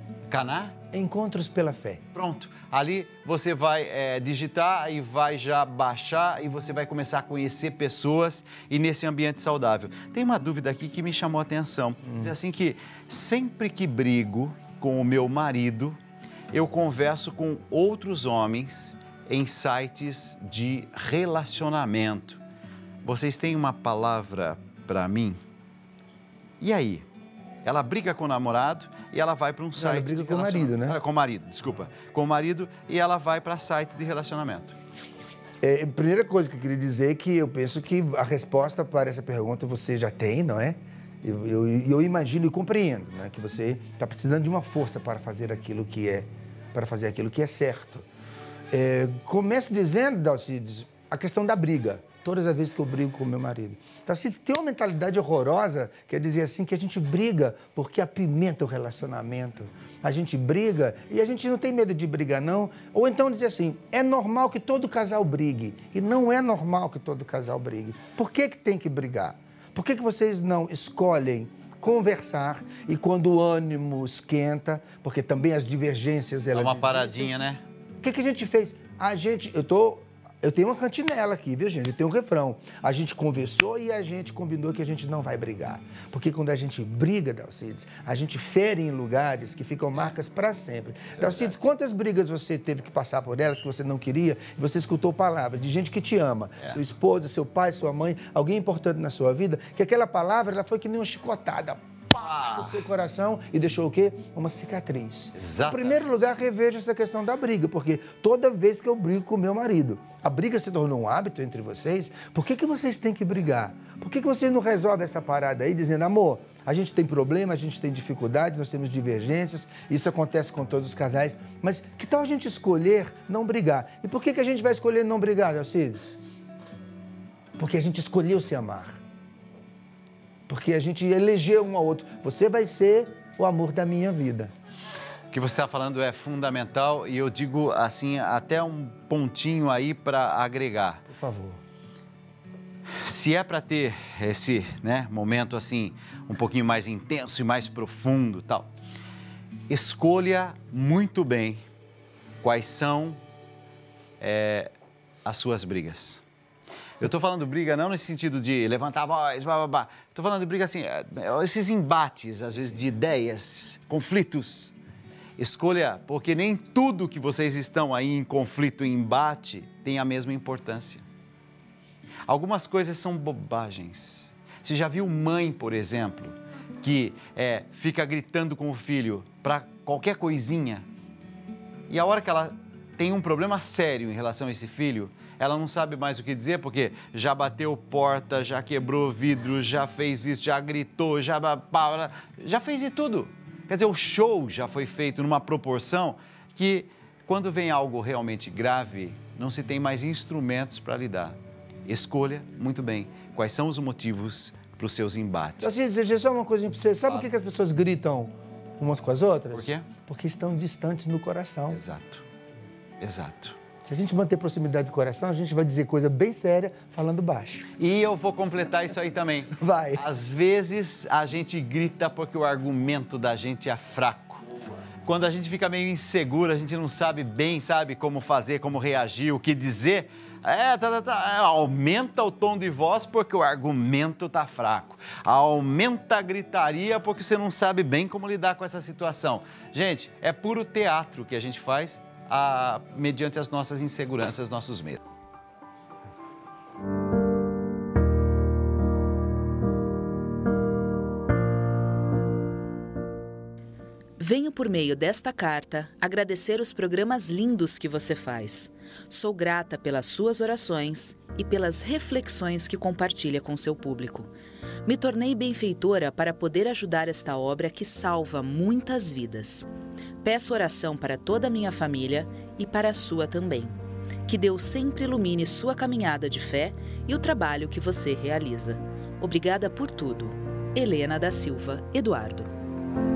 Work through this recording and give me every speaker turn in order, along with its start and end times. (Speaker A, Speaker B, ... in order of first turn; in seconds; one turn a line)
Speaker A: 0.3-0.8
Speaker B: 0.9-2.0
Speaker A: 2.1-16.0
Speaker A: 16.5-22.4
Speaker A: 23.0-25.4
Speaker A: 26.6-27.1
Speaker A: 27.6-34.8
Speaker B: 29.8-31.0
Speaker B: 35.6-48.0
Speaker B: 48.7-77.3
Speaker A: 76.5-77.6
Speaker B: 78.0-126.2
Speaker A: 91.2-91.5
Speaker A: 102.2-102.7
Speaker A: 105.3-106.1
Speaker B: 127.5-129.0
Speaker B: 130.5-134.5
Speaker A: 135.3-141.0
Speaker B: 141.1-141.6
Speaker A: 143.0-148.7
Speaker A: 149.7-151.6
Speaker A: 152.4-153.2
Speaker A: 154.2-154.7
Speaker A: 155.2-156.2
Speaker A: 157.0-164.7
Speaker A: 165.4-171.1
Speaker A: 172.3-180.8
Speaker A: 181.9-205.8
Speaker B: 205.6-211.8
Speaker A: 209.5-209.9
Speaker A: 211.7-212.2
Speaker A: 213.0-213.6
Speaker B: 213.8-217.7
Speaker A: 217.8-224.4
Speaker B: 219.5-220.0
Speaker A: 225.0-245.1
Speaker C: 254.2-264.3
Speaker C: 264.8-269.6
Speaker C: 270.2-273.7
Speaker C: 274.2-282.5